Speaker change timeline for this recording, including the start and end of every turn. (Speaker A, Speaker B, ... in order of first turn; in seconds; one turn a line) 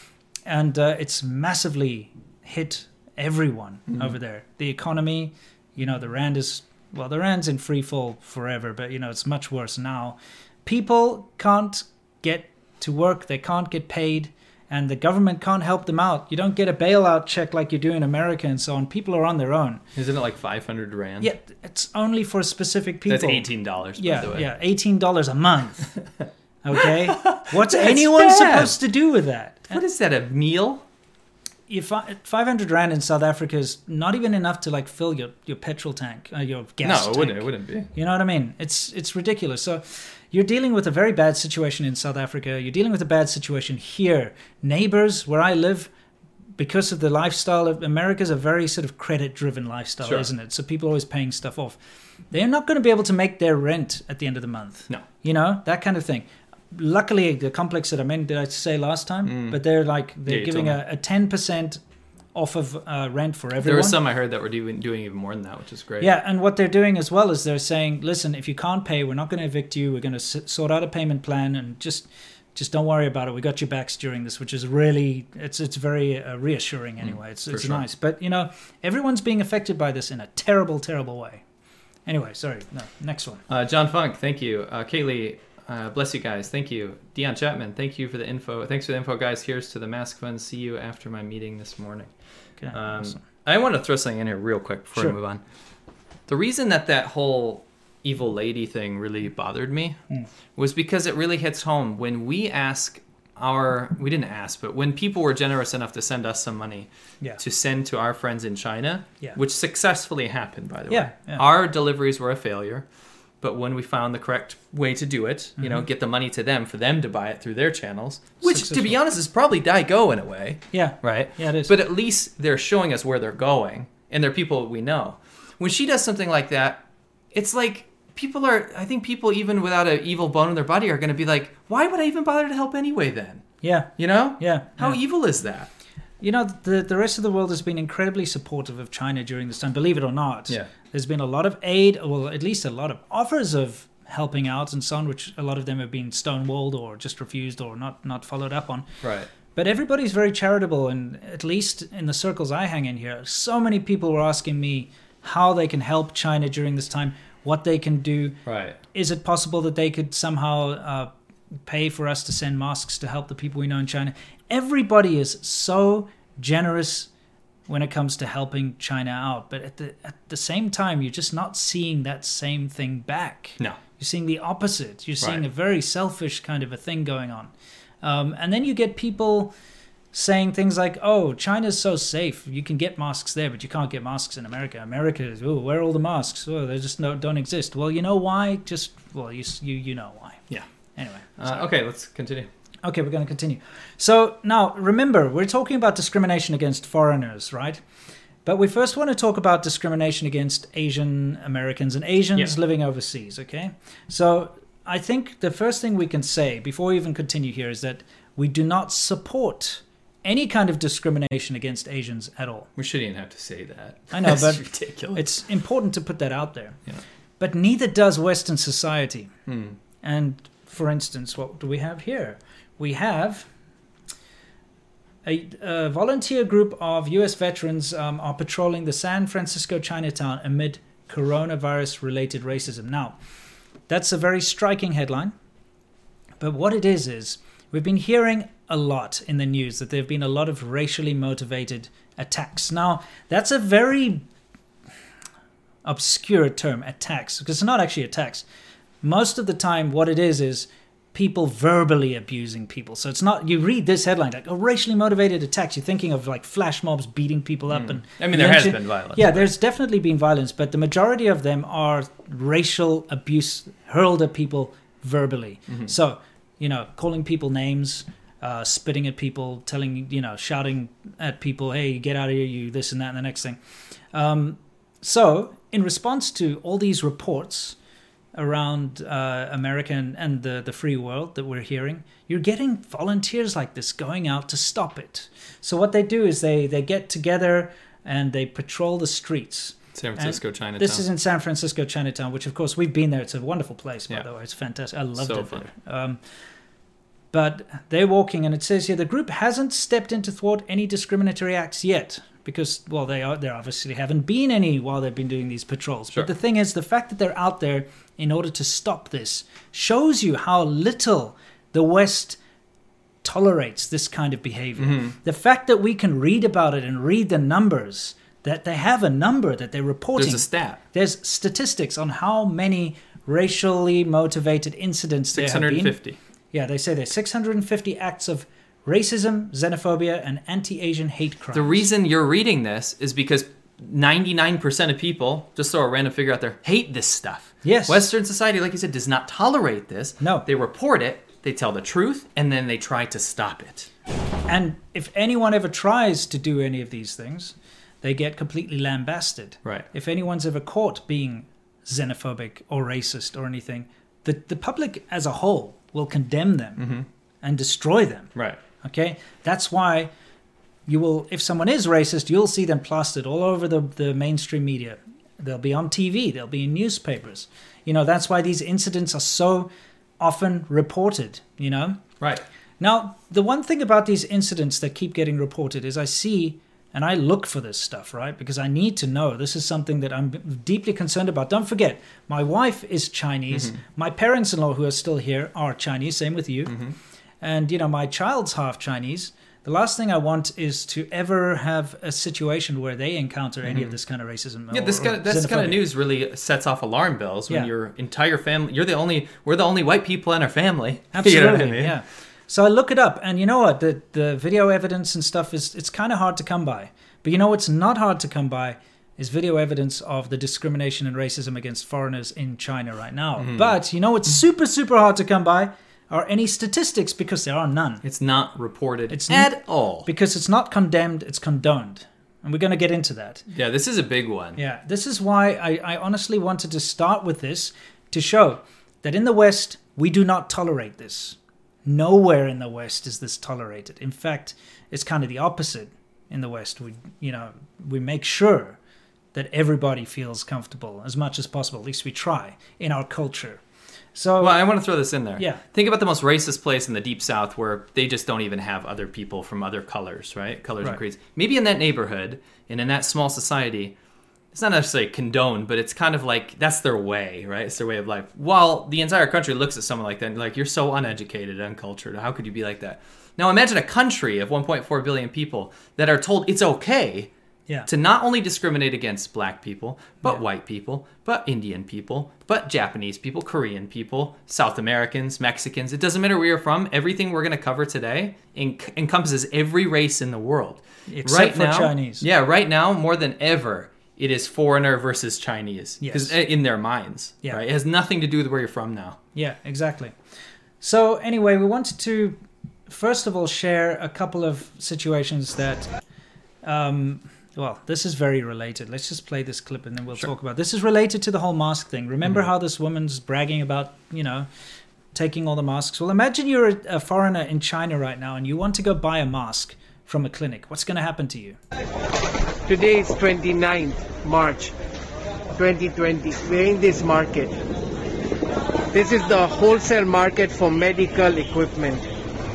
Speaker A: 0.5-19.8
Speaker B: 3.9-4.2
Speaker B: 19.9-21.3
Speaker A: 21.2-25.9
Speaker B: 23.1-24.5
Speaker A: 26.6-29.8
Speaker B: 26.8-28.8
Speaker B: 29.7-30.9
Speaker A: 31.7-45.9
Speaker B: 36.8-37.9
Speaker A: 46.6-51.8
Speaker B: 50.0-50.3
Speaker A: 52.3-61.8
Speaker B: 59.2-59.6
Speaker B: 60.2-60.8
Speaker A: 62.3-64.0
Speaker B: 63.6-66.1
Speaker A: 66.0-81.4
Speaker B: 77.0-77.8
Speaker A: 82.1-83.4
Speaker B: 83.5-95.4
Speaker A: 92.6-93.2
Speaker B: 96.3-100.0
Speaker B: 100.6-112.9
Speaker A: 110.9-111.4
Speaker B: 113.4-135.7
Speaker A: 115.6-115.8
Speaker A: 118.4-119.0
Speaker A: 120.7-121.7
Speaker A: 133.6-135.0
Speaker A: 136.2-148.8
Speaker B: 149.0-149.3
Speaker A: 149.5-158.4
Speaker B: 158.4-158.8
Speaker A: 158.9-161.1
Speaker A: 161.7-167.1
Speaker A: 167.7-179.5
Speaker A: 180.1-191.6
Speaker B: 191.4-192.5
Speaker A: 192.8-197.8
Speaker A: 198.4-212.7
Speaker B: 212.8-215.2
Speaker A: 214.1-216.8
Speaker A: 217.4-219.3
Speaker B: 219.5-219.8
Speaker A: 220.0-223.5
Speaker A: 225.2-233.2
Speaker A: 233.9-235.3
Speaker A: 236.4-244.2
Speaker A: 245.8-248.4
Speaker A: 249.0-273.6
Speaker B: 257.7-259.5
Speaker B: 265.7-265.9
Speaker A: 274.1-277.8
Speaker A: 278.3-296.4
Speaker B: 289.9-291.0
Speaker B: 295.1-295.7
Speaker A: 297.3-312.4
Speaker A: 313.2-326.0
Speaker B: 314.8-315.1
Speaker B: 320.1-320.8
Speaker B: 325.3-326.2
Speaker A: 326.5-331.9
Speaker B: 331.5-343.9
Speaker A: 337.6-338.0
Speaker A: 344.5-356.9
Speaker B: 356.8-357.1
Speaker A: 357.4-360.1
Speaker B: 358.4-358.6
Speaker A: 360.9-372.0
Speaker A: 372.8-386.8
Speaker B: 383.5-383.8
Speaker B: 386.6-387.0
Speaker A: 387.4-395.8
Speaker B: 393.6-393.9
Speaker B: 394.7-402.0
Speaker A: 401.1-418.0
Speaker B: 413.4-413.8
Speaker B: 418.0-420.1
Speaker A: 419.1-423.4
Speaker B: 423.5-424.6
Speaker A: 424.6-438.8
Speaker A: 439.3-443.6
Speaker A: 444.1-444.8
Speaker B: 444.4-454.0
Speaker A: 445.4-445.6
Speaker B: 454.5-467.3
Speaker B: 467.9-489.2
Speaker A: 481.1-482.2
Speaker A: 486.0-486.4
Speaker A: 489.4-490.2
Speaker A: 490.8-495.9
Speaker A: 496.6-504.5
Speaker A: 505.1-511.6
Speaker C: 512.6-514.7
Speaker C: 515.5-517.5
Speaker C: 518.9-522.1